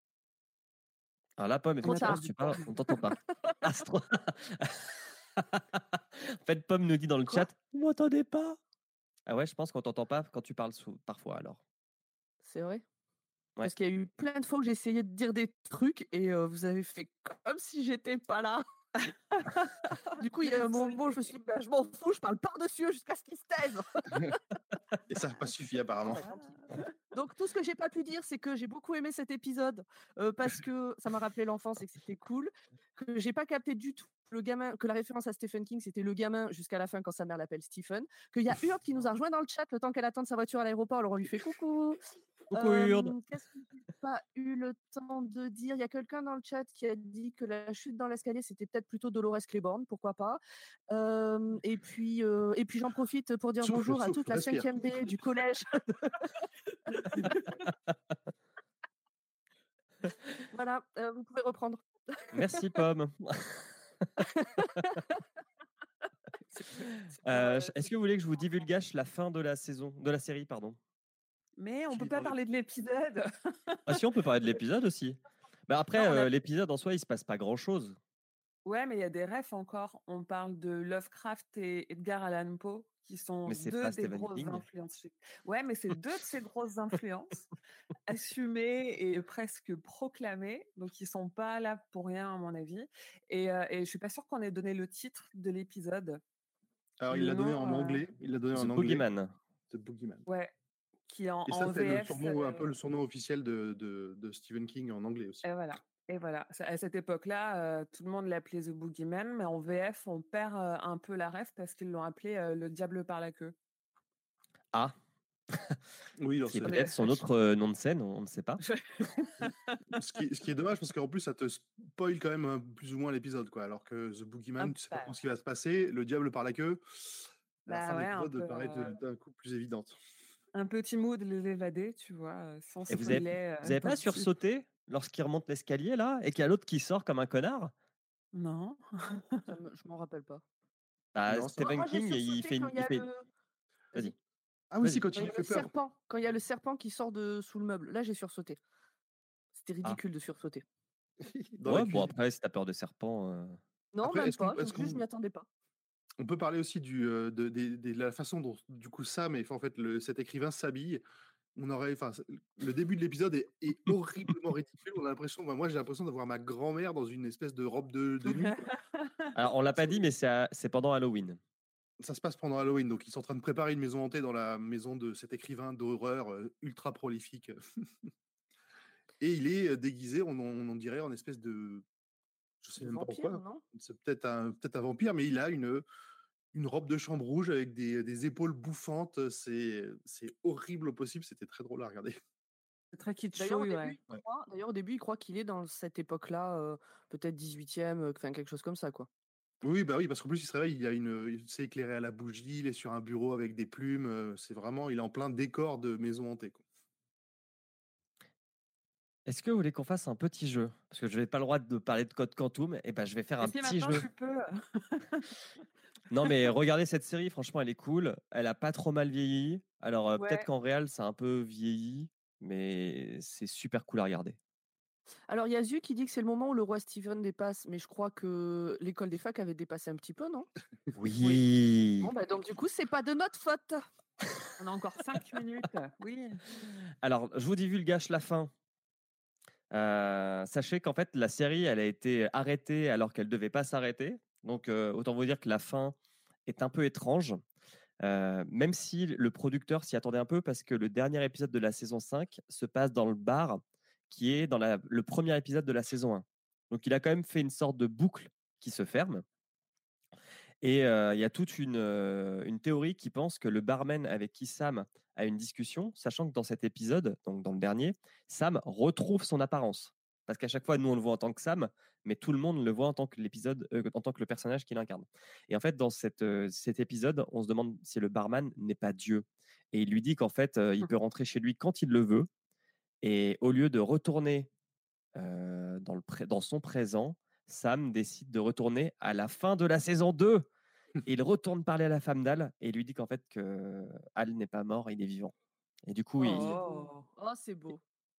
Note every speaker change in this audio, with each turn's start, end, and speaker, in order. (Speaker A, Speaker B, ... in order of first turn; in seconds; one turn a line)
Speaker A: 1.4-8.6
Speaker B: 1.8-2.8
Speaker C: 1.8-3.1
Speaker A: 9.3-11.6
Speaker C: 12.4-12.8
Speaker C: 13.6-18.6
Speaker B: 19.5-21.0
Speaker C: 20.2-24.4
Speaker D: 25.1-26.2
Speaker C: 26.1-26.4
Speaker B: 26.2-26.5
Speaker C: 27.1-42.0
Speaker A: 42.5-43.1
Speaker C: 42.5-56.1
Speaker D: 53.6-54.7
Speaker C: 60.5-62.5
Speaker A: 62.3-64.1
Speaker C: 64.3-65.1
Speaker A: 67.1-70.8
Speaker B: 71.6-74.0
Speaker D: 71.9-72.3
Speaker A: 73.9-78.0
Speaker B: 76.0-76.3
Speaker B: 78.7-87.5
Speaker A: 83.5-84.7
Speaker B: 88.1-96.2
Speaker D: 97.0-99.0
Speaker B: 97.1-98.0
Speaker A: 98.5-99.3
Speaker D: 99.7-100.2
Speaker B: 100.3-100.5
Speaker B: 101.1-102.7
Speaker D: 101.5-105.4
Speaker B: 105.4-113.5
Speaker D: 116.2-116.8
Speaker A: 116.5-118.6
Speaker B: 116.6-117.2
Speaker B: 118.6-119.8
Speaker D: 119.9-130.0
Speaker B: 124.6-125.1
Speaker B: 127.7-129.0
Speaker B: 130.6-134.3
Speaker A: 132.9-137.7
Speaker B: 138.3-139.5
Speaker C: 139.5-140.4
Speaker A: 141.2-143.1
Speaker D: 141.3-141.6
Speaker C: 141.6-143.2
Speaker D: 144.7-145.7
Speaker C: 145.1-148.6
Speaker C: 149.6-150.6
Speaker D: 151.2-152.1
Speaker A: 151.7-153.6
Speaker C: 153.9-155.5
Speaker D: 154.0-155.0
Speaker D: 156.2-161.0
Speaker D: 161.6-168.6
Speaker B: 168.2-170.0
Speaker A: 169.3-171.4
Speaker D: 172.0-177.6
Speaker D: 179.2-181.8
Speaker D: 182.6-185.8
Speaker C: 182.8-183.6
Speaker D: 186.5-192.2
Speaker B: 192.9-194.0
Speaker C: 193.4-199.1
Speaker D: 199.6-206.6
Speaker A: 209.3-214.1
Speaker B: 213.4-215.3
Speaker A: 216.1-224.4
Speaker B: 220.2-220.5
Speaker C: 225.3-230.5
Speaker A: 230.9-232.1
Speaker C: 232.0-233.9
Speaker B: 234.6-236.4
Speaker A: 237.0-238.5
Speaker A: 239.7-247.4
Speaker A: 248.0-259.2
Speaker A: 260.6-282.3
Speaker A: 283.0-284.5
Speaker A: 285.2-290.5
Speaker A: 291.1-295.3
Speaker A: 295.9-296.5
Speaker B: 296.2-297.1
Speaker C: 296.2-297.8